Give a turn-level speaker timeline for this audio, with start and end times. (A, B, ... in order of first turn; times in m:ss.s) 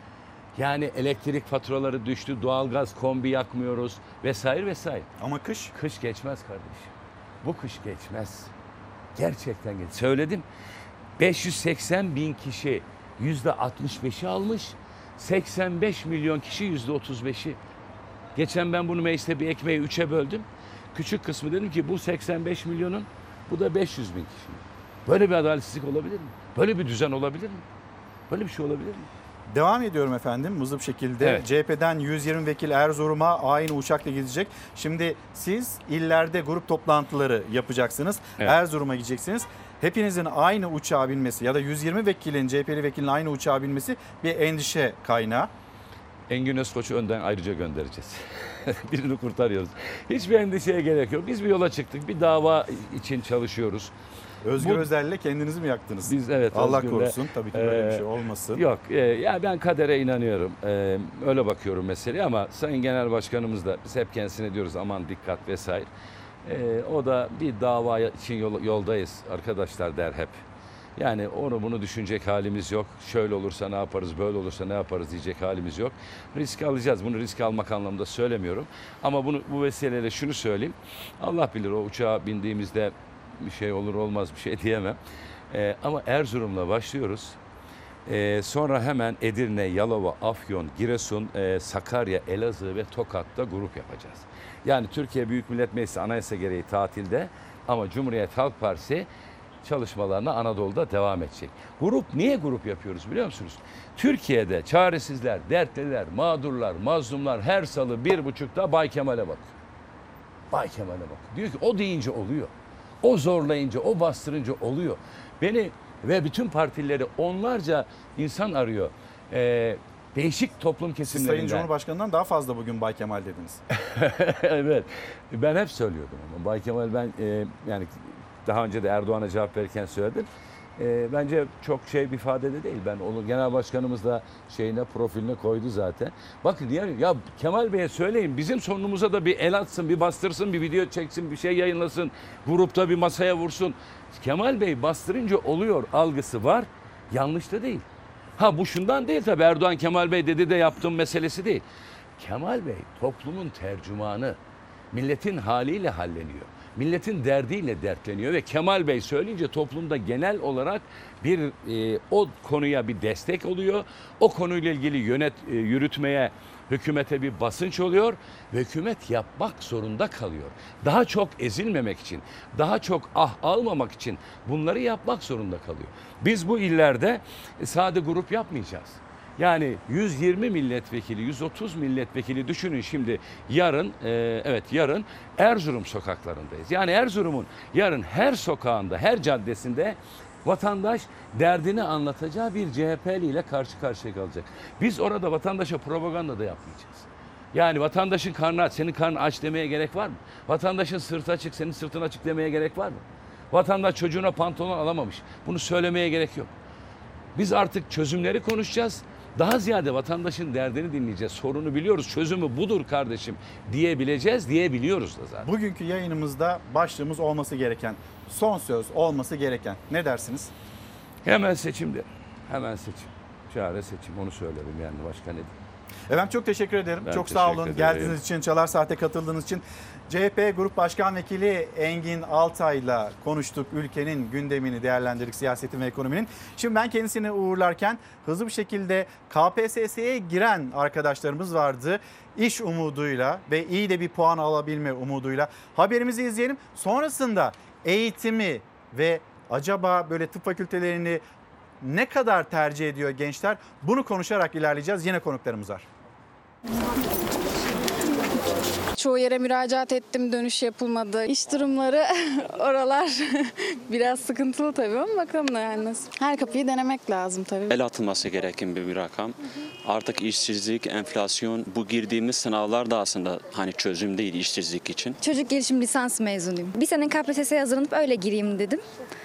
0:00.6-0:05.1 A
0:05.2-0:05.7 B
0:05.7-0:08.5 A
0:09.2-0:10.4 A
0:11.2-0:17.6 A
0:18.4-0:27.6 A
0:28.3-0:29.1 A
0:29.5-0:45.5 B
0:46.3-0:53.9 A
0:54.4-0:58.6 B
0:54.6-0:54.9 A
0:56.1-1:05.9 A
1:06.4-1:10.4 A
1:11.0-1:25.0 A
1:25.5-1:27.4 A
1:28.1-1:39.1 A
1:39.6-1:49.5 A
1:50.5-2:01.7 A
2:01.1-2:03.6 B
2:03.8-2:27.9 A
2:28.4-2:31.6 A
2:32.2-2:34.4 A
2:34.9-3:26.5 A
3:27.4-3:35.5 A
3:35.4-3:40.5 B
3:41.2-3:45.5 A
3:46.1-4:11.2 B
3:47.0-3:48.2 A
4:11.8-4:15.9 B
4:19.0-4:27.7 C
4:27.7-4:35.2 D
4:35.2-4:38.8 E